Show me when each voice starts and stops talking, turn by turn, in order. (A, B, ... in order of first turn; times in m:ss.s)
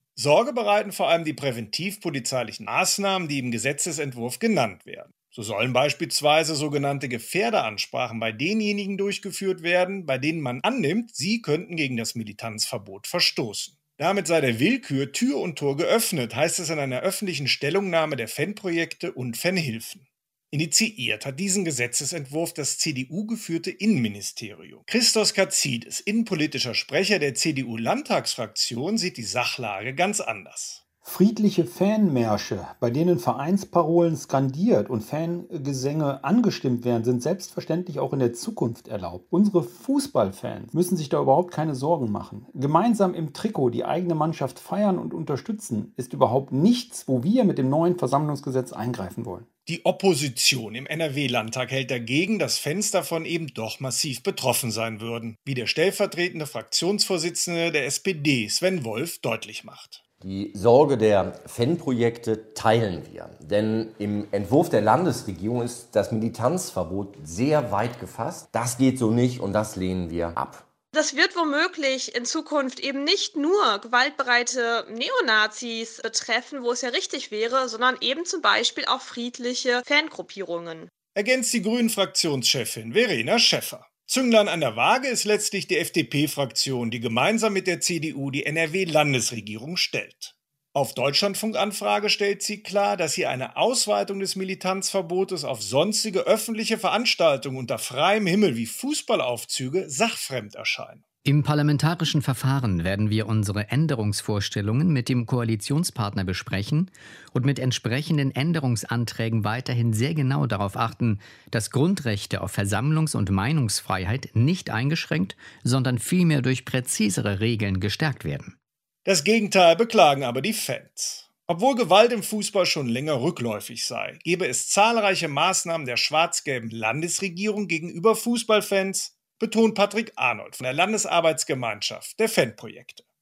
0:00.2-0:30.8 A
0:31.0-0:49.4 B
0:49.7-1:00.0 A
1:00.2-1:10.6 C
1:10.9-1:20.9 D
1:21.1-1:41.0 A
1:41.2-1:58.5 E
1:59.0-2:13.0 A